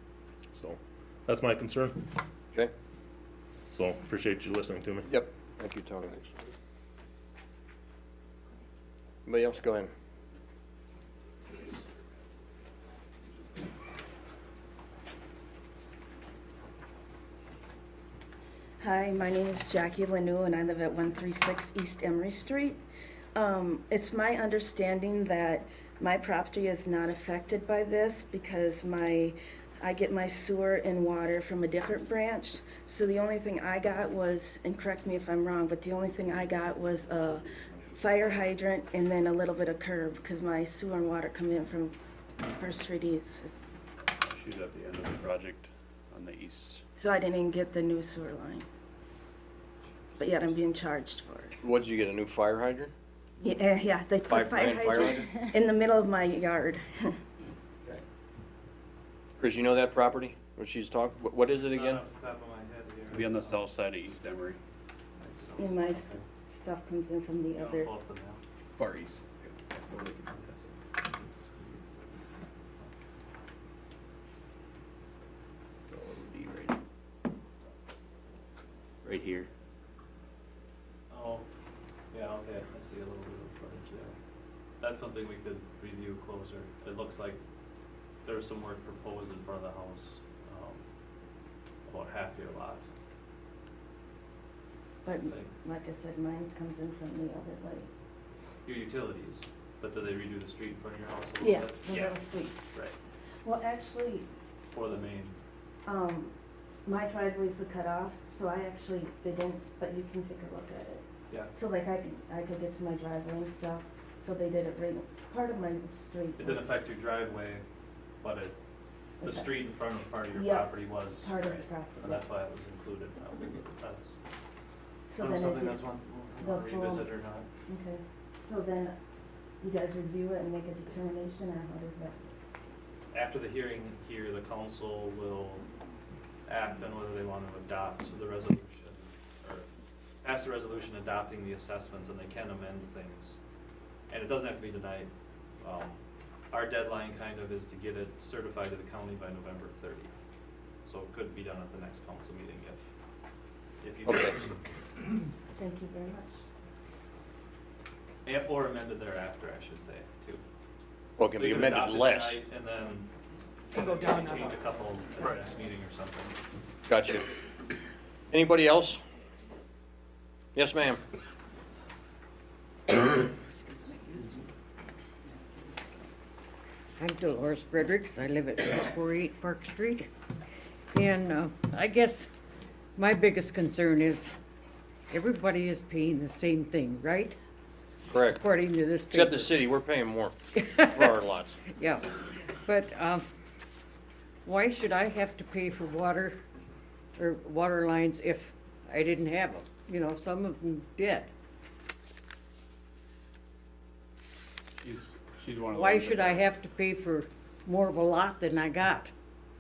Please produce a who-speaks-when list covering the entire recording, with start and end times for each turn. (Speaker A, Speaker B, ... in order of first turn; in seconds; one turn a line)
Speaker A: 0.5-2.0
Speaker A: 3.7-5.1
Speaker B: 5.1-6.3
Speaker B: 9.3-9.9
Speaker C: 18.8-22.8
Speaker C: 23.4-43.6
Speaker D: 44.2-46.8
Speaker C: 47.0-48.7
Speaker C: 50.2-51.6
Speaker B: 51.6-52.9
Speaker C: 53.4-57.2
Speaker B: 54.3-55.5
Speaker B: 59.4-62.0
Speaker E: 61.7-63.7
Speaker D: 63.1-64.6
Speaker E: 65.2-66.2
Speaker C: 65.6-67.9
Speaker E: 67.6-68.4
Speaker D: 68.8-70.7
Speaker E: 81.1-81.5
Speaker E: 82.1-84.2
Speaker E: 84.8-87.4
Speaker E: 88.2-90.8
Speaker E: 91.9-92.9
Speaker C: 95.0-97.9
Speaker E: 95.3-95.5
Speaker E: 98.7-102.2
Speaker C: 101.4-102.6
Speaker C: 103.4-104.3
Speaker E: 104.7-105.4
Speaker C: 105.8-106.3
Speaker C: 106.8-116.7
Speaker E: 116.4-117.6
Speaker E: 118.2-118.5
Speaker E: 119.2-124.2
Speaker C: 119.2-119.6
Speaker C: 120.3-122.2
Speaker C: 125.1-125.9
Speaker E: 125.2-127.5
Speaker C: 126.4-127.1
Speaker C: 127.7-129.0
Speaker C: 129.6-132.3
Speaker E: 133.1-135.7
Speaker E: 136.5-139.7
Speaker E: 140.2-143.4
Speaker E: 144.1-146.0
Speaker E: 146.5-150.2
Speaker E: 150.8-152.8
Speaker E: 153.8-154.6
Speaker B: 154.1-154.3
Speaker C: 155.5-156.4
Speaker E: 158.2-160.4
Speaker B: 161.2-162.4
Speaker E: 161.3-163.1
Speaker E: 163.7-166.4
Speaker B: 166.9-167.2
Speaker B: 168.3-169.0
Speaker B: 170.6-171.0
Speaker F: 173.5-174.3
Speaker F: 177.0-180.1
Speaker F: 180.9-182.3
Speaker F: 183.0-184.3
Speaker F: 185.1-187.4
Speaker B: 188.1-188.4
Speaker F: 188.3-189.7
Speaker B: 189.1-191.6
Speaker F: 190.6-193.2
Speaker F: 194.4-196.4
Speaker F: 197.2-201.3
Speaker D: 204.8-206.5
Speaker F: 205.7-209.1